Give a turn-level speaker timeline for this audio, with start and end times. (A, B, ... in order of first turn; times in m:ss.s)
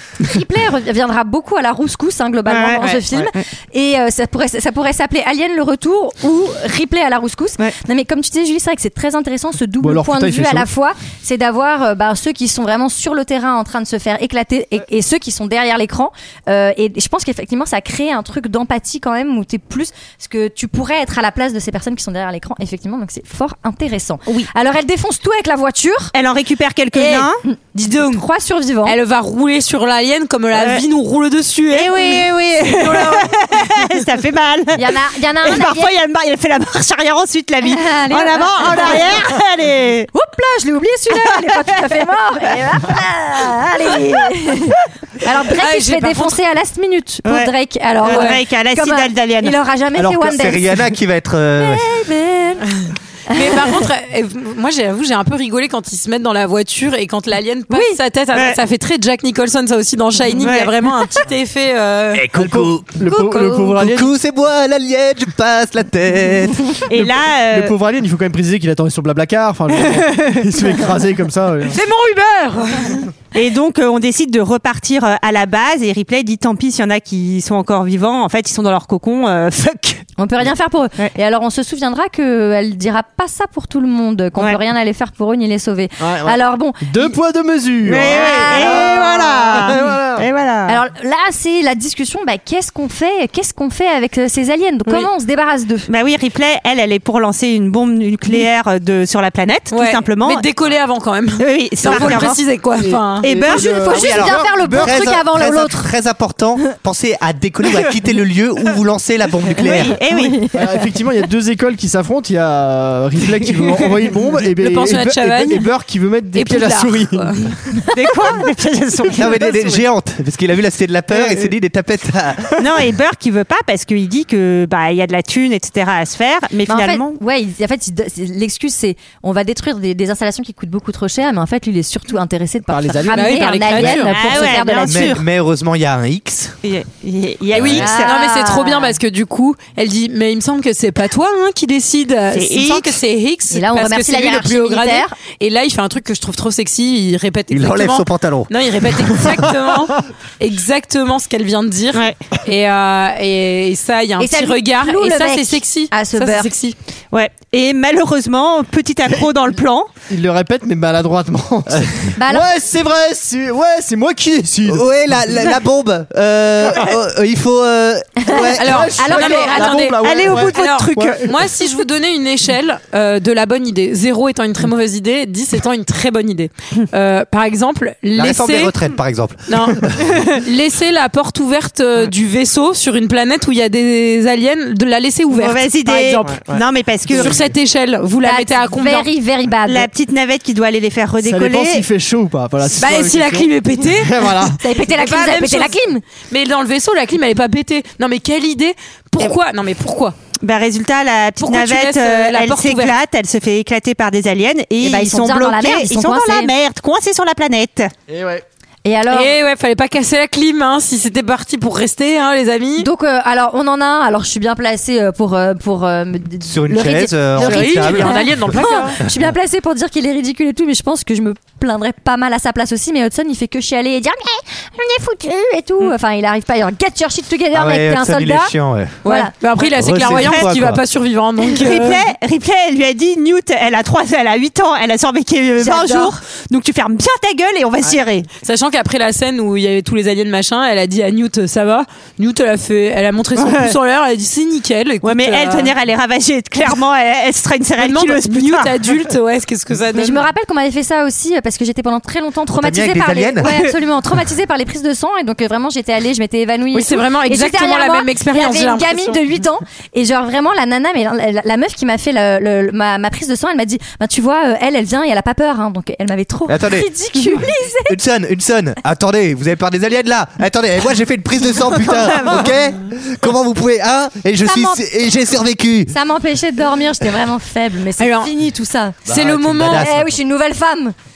0:00.2-0:26.1 A
0:02.5-0:03.4 B
0:09.8-0:10.7 C
0:26.1-0:27.4 B
0:26.9-0:29.0 A
0:27.7-0:28.2 D
0:28.8-0:33.6 D
0:30.5-0:30.8 B
0:31.7-0:40.1 B
0:34.7-0:35.9 A
0:37.6-0:39.1 A
0:40.1-0:50.8 A
0:41.3-0:41.8 B
0:45.6-0:46.4 D
0:47.2-0:49.6 B
0:48.0-0:48.4 D
0:50.0-0:51.8 E
0:51.6-0:53.7 A
0:53.3-1:02.3 D
0:57.7-0:58.0 A
0:58.3-0:58.6 B
1:00.4-1:00.7 B
1:02.1-1:03.0 E
1:02.3-1:04.1 C
1:03.1-1:03.7 D
1:03.7-1:06.7 E
1:06.9-1:07.7 B
1:06.9-1:11.8 C
1:09.8-1:10.4 B
1:11.6-1:13.0 D
1:13.3-1:20.0 B
1:20.2-1:27.1 A
1:26.0-1:30.3 C
1:27.8-1:30.8 B
1:28.0-1:29.0 A
1:30.7-1:35.9 A
1:35.9-1:40.5 B
1:39.7-1:43.2 D
1:41.4-1:42.4 B
1:41.9-1:44.4 C
1:43.2-1:43.7 B
1:43.4-1:45.9 A
1:43.8-1:50.0 E
1:49.6-1:50.5 B
1:50.1-1:50.6 A
1:50.5-1:57.6 C
1:54.6-1:55.7 D
1:56.3-1:57.6 D
1:57.9-1:59.8 B
1:59.1-2:02.6 E
2:01.1-2:01.4 C
2:02.6-2:07.2 B
2:06.7-2:15.2 A
2:12.7-2:13.9 C
2:13.1-2:14.1 D
2:14.1-2:15.2 B
2:14.4-2:16.6 E
2:16.6-2:18.2 B
2:17.5-2:17.8 E
2:17.5-2:36.8 D
2:17.6-2:19.0 A
2:22.3-2:23.0 B
2:23.5-2:25.1 A
2:27.5-2:29.3 E
2:31.9-2:32.2 B
2:34.2-2:36.5 A
2:37.1-2:39.9 B
2:40.1-2:44.8 C
2:42.2-2:42.5 A
2:44.6-2:49.0 E
2:48.2-2:49.7 A
2:48.6-2:51.3 C
2:48.6-2:58.7 D
2:50.0-2:51.3 B
2:58.1-3:00.0 E
2:59.5-3:06.4 D
3:05.3-3:07.4 B
3:06.2-3:07.5 C
3:07.1-3:09.1 D
3:08.2-3:09.9 A
3:09.6-3:11.9 B
3:11.2-3:14.6 C
3:12.8-3:15.8 D
3:14.6-3:16.0 A
3:16.3-3:20.2 D
3:20.4-3:27.9 B
3:21.4-3:22.9 D
3:24.8-3:26.5 A
3:28.1-3:28.4 C
3:28.8-3:29.4 A
3:29.1-3:32.9 D
3:32.8-3:49.3 A
3:36.4-3:39.2 E
3:37.3-3:39.0 D
3:47.5-3:49.0 E
3:49.0-3:52.0 D
3:49.8-3:50.8 E
3:50.1-3:50.5 B
3:51.5-3:58.3 B
3:55.6-3:56.2 A
3:58.4-4:05.7 D
4:03.4-4:03.7 B
4:05.0-4:08.8 B
4:07.8-4:10.2 D
4:09.9-4:28.0 A
4:12.5-4:13.5 E
4:16.7-4:19.2 D
4:26.5-4:26.9 E
4:27.8-4:35.9 E
4:31.9-4:32.4 B
4:34.4-4:34.8 A
4:35.9-4:39.0 A
4:38.0-4:38.3 D
4:39.0-4:40.2 E
4:39.1-4:39.9 D
4:39.7-4:40.9 A